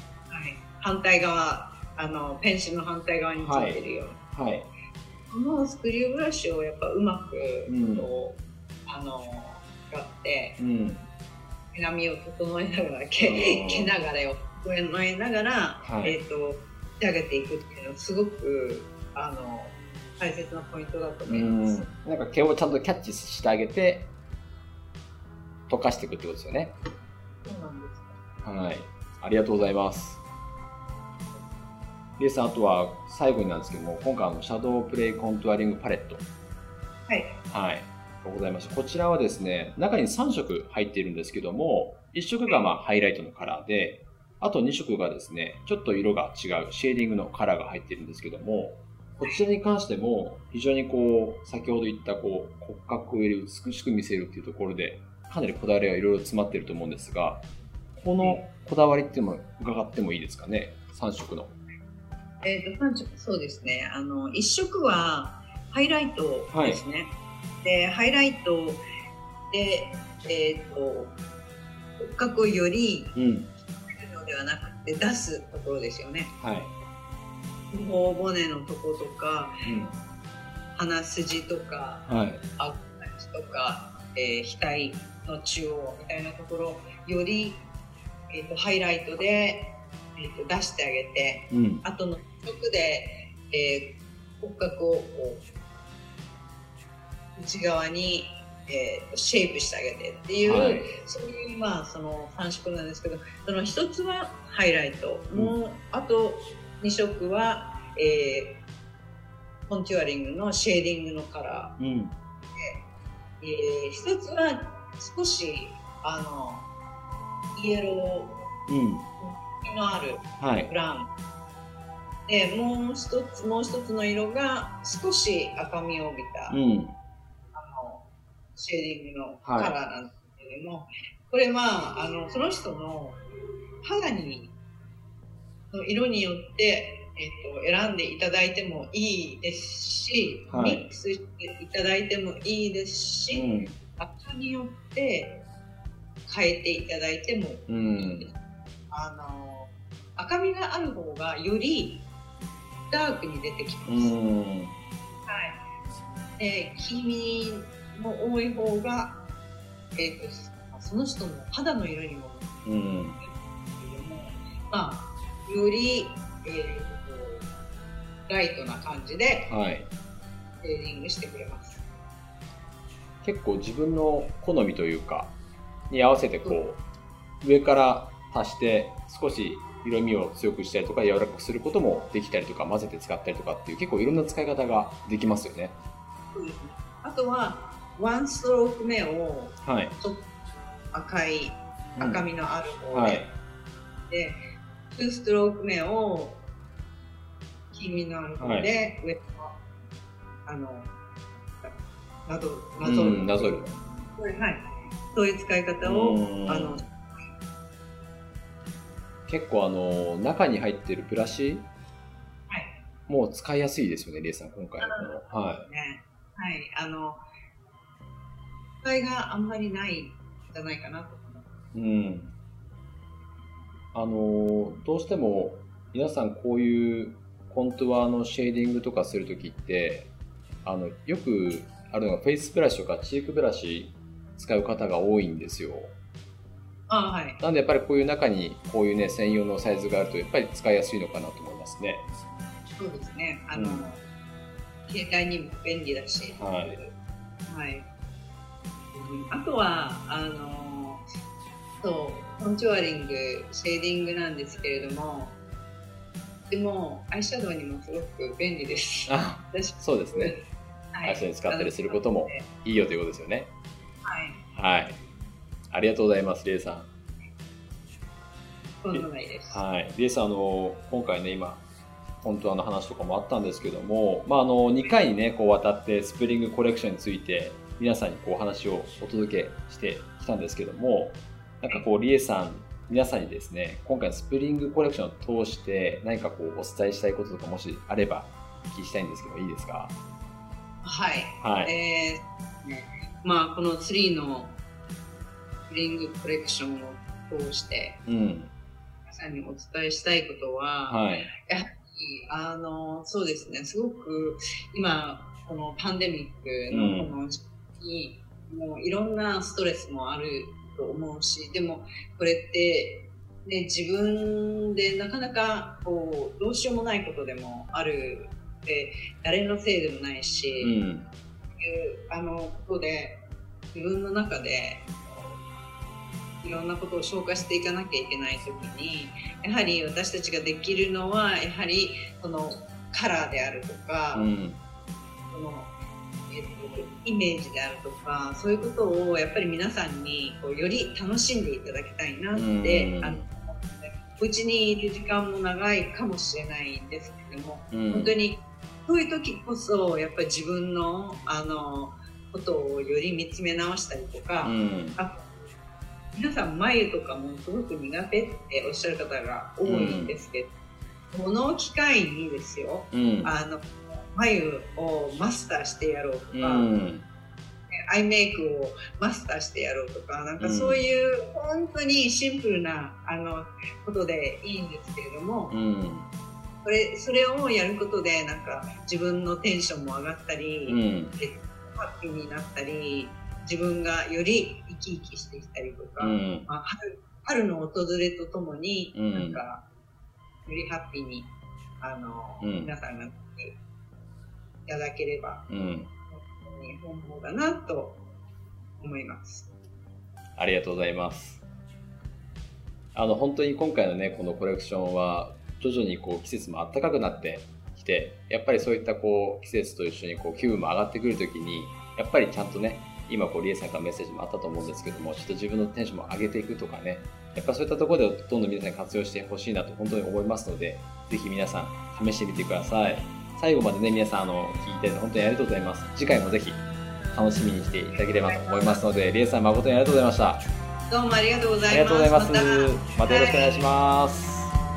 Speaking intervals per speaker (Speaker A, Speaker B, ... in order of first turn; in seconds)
Speaker A: 0.3-4.2, 5.3-10.6, 11.7-21.9, 27.4-28.1, 37.1-37.4, 58.2-58.4, 62.4-68.8, 69.5-71.2, 72.0-73.2, 73.7-76.3, 77.7-79.5, 80.8-87.6, 88.3-95.4, 97.3-108.6, 109.7-111.8, 113.4-116.7, 117.5-118.5, 119.2-121.1, 122.3-126.6, 127.5-128.0, 128.6-133.2, 133.8-134.5, 135.7-145.4, 146.2-148.3, 148.9-152.1, 152.9-154.2, 155.3-155.6, 156.4-159.2, 159.9-162.5, 163.2-167.4, 168.3-169.5, 170.6-171.8, 186.3-190.3, 190.9-193.3, 194.1-196.4, 197.7-199.6, 200.4-200.9, 201.6-207.2, 212.5-212.8, 214.8-217.2, 218.8-221.4, 236.9-237.4, 242.8-244.0, 244.9-246.9, 247.5-247.8, 248.9-251.0, 251.8-255.3, 256.5-260.4, 260.9-262.5, 264.0-264.4, 268.8-269.6, 290.8-294.6, 295.7-298.0, 299.1-320.8, 321.6-324.9, 326.4-334.3, 335.3-335.7, 336.3-355.2, 356.1-360.5, 361.1-366.7, 367.7-375.6, 376.6-389.6, 390.4-393.6, 394.7-395.5, 396.1-398.0, 398.8-399.5, 427.9-428.8, 430.9-433.6
Speaker B: 3.4-4.7, 7.7-8.1, 10.6-11.1, 13.2-13.9, 15.8-16.2, 21.3-24.1, 25.7-26.7, 28.4-30.2, 32.2-36.2, 37.5-57.4, 58.0-61.5, 66.5-66.8, 73.1-73.5, 76.4-76.7, 79.6-80.0, 82.1-82.4, 91.5-91.8, 100.4-100.9, 105.3-105.6, 111.8-112.1, 118.7-119.0, 120.4-120.7, 126.5-127.0, 129.4-129.7, 140.5-140.8, 143.3-143.7, 147.7-148.3, 153.8-154.8, 162.6-163.2, 169.5-169.9, 173.2-175.3, 175.9-176.8, 177.4-185.7, 189.6-189.9, 192.0-192.2, 192.9-193.3, 198.4-198.7, 202.8-203.7, 205.8-206.8, 209.3-211.7, 213.1-215.7, 221.7-222.3, 223.9-230.1, 230.6-235.9, 237.4-242.0, 243.5-243.9, 246.4-246.8, 259.1-260.3, 261.0-263.5, 264.5-265.0, 265.7-266.9, 268.9-271.6, 272.2-289.9, 291.4-291.7, 298.1-298.5, 300.9-301.3, 306.7-307.1, 320.6-321.1, 334.1-334.6, 342.3-343.3, 347.7-348.1, 354.4-355.0, 359.6-360.2, 362.9-363.3, 366.3-367.1, 370.4-370.8, 375.5-376.1, 380.7-381.2, 386.0-386.4, 388.9-389.4, 392.4-392.7, 395.5-395.9, 400.4-401.4, 402.9-430.4, 431.7-434.5